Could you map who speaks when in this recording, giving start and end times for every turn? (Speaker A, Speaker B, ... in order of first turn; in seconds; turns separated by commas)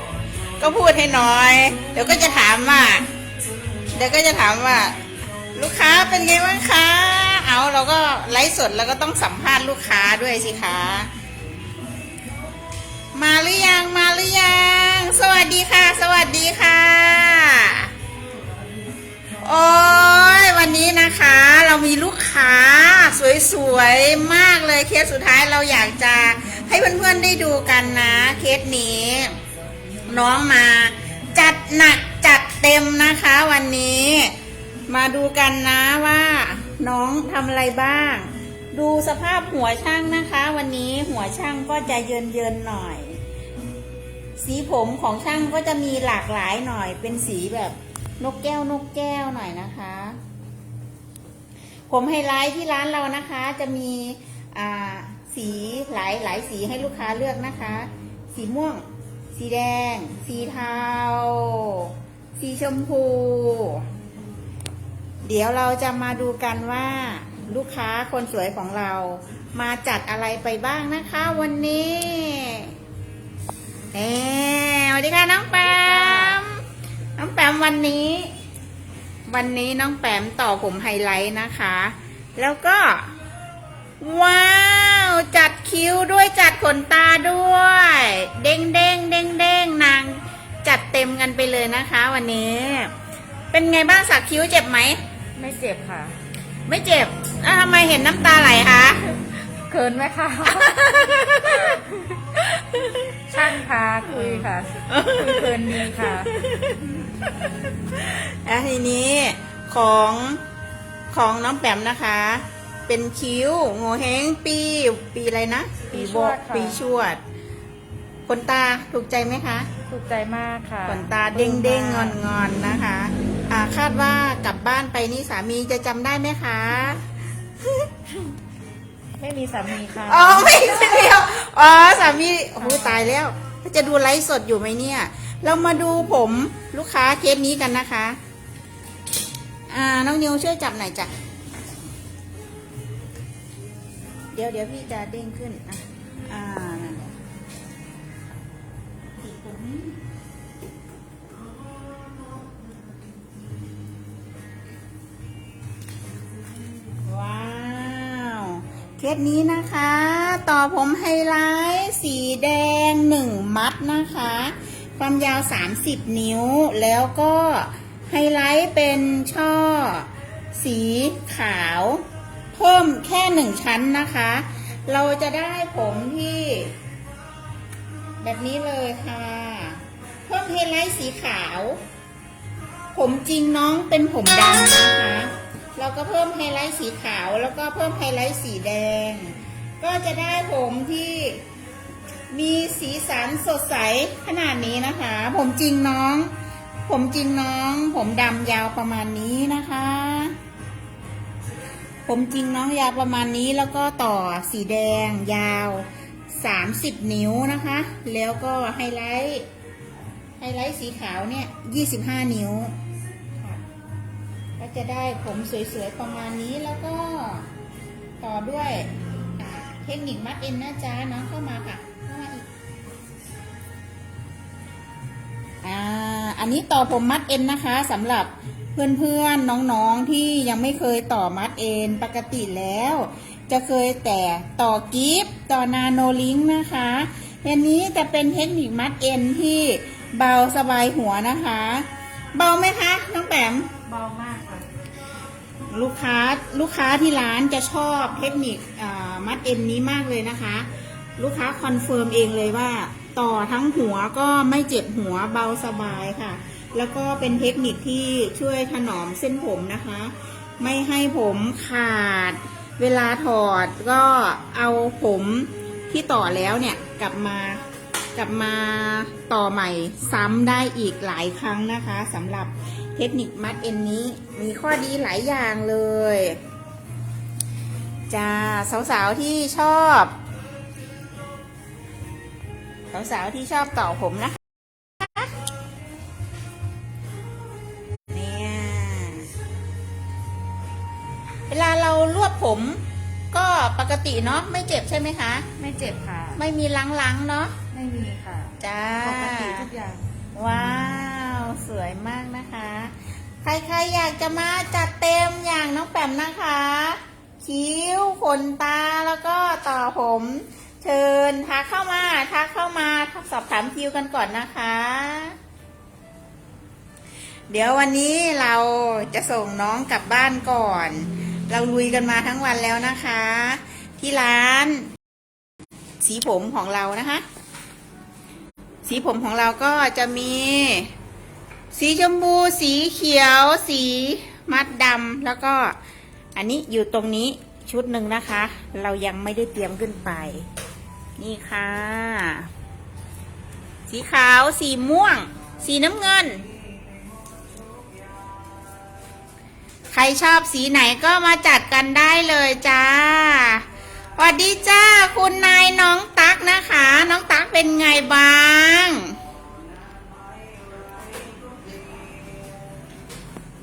Speaker A: 0.6-3.1, Speaker A: 3.9-5.0, Speaker A: 5.5-11.1, Speaker A: 13.1-17.9, Speaker A: 19.4-29.3, Speaker A: 30.1-34.3, Speaker A: 34.9-43.2, Speaker A: 44.4-50.2, Speaker A: 51.9-63.9, Speaker A: 65.2-72.7, Speaker A: 73.9-76.6, Speaker B: 75.5-76.4, Speaker A: 77.2-78.3, Speaker A: 79.3-83.1, Speaker A: 84.0-92.9, Speaker A: 93.5-95.0, Speaker B: 95.3-96.2, Speaker A: 96.7-99.2, Speaker B: 99.6-102.2, Speaker A: 100.5-101.8, Speaker A: 102.6-102.9, Speaker B: 103.3-106.3, Speaker A: 104.0-106.9, Speaker A: 107.8-110.4, Speaker A: 111.1-117.2, Speaker B: 115.9-116.8, Speaker A: 118.3-119.7, Speaker B: 119.9-122.2, Speaker A: 120.9-127.0, Speaker B: 129.2-130.9, Speaker A: 130.0-138.2, Speaker B: 132.6-133.1, Speaker A: 139.7-141.1, Speaker A: 144.3-147.1, Speaker A: 149.2-149.9, Speaker A: 157.0-172.0, Speaker A: 172.5-176.7, Speaker A: 178.2-181.8, Speaker A: 182.9-191.4, Speaker A: 192.3-196.3, Speaker A: 196.9-200.3, Speaker A: 202.1-209.4, Speaker A: 210.4-212.7, Speaker A: 214.6-217.5, Speaker A: 218.2-222.5, Speaker A: 225.6-243.8, Speaker B: 243.8-244.7, Speaker A: 245.7-267.6, Speaker A: 268.1-276.4, Speaker A: 278.1-280.1, Speaker A: 282.9-284.4, Speaker A: 285.0-285.3, Speaker A: 288.1-289.3, Speaker A: 291.5-295.5, Speaker B: 295.6-296.4, Speaker A: 296.3-297.6, Speaker B: 297.7-300.0, Speaker A: 298.6-299.7, Speaker A: 300.3-315.4, Speaker A: 317.5-324.9, Speaker A: 326.0-327.2, Speaker A: 328.9-330.9, Speaker A: 331.7-335.8, Speaker A: 336.3-340.4, Speaker A: 341.2-342.5, Speaker A: 343.9-346.4, Speaker A: 349.9-353.6, Speaker A: 354.2-359.1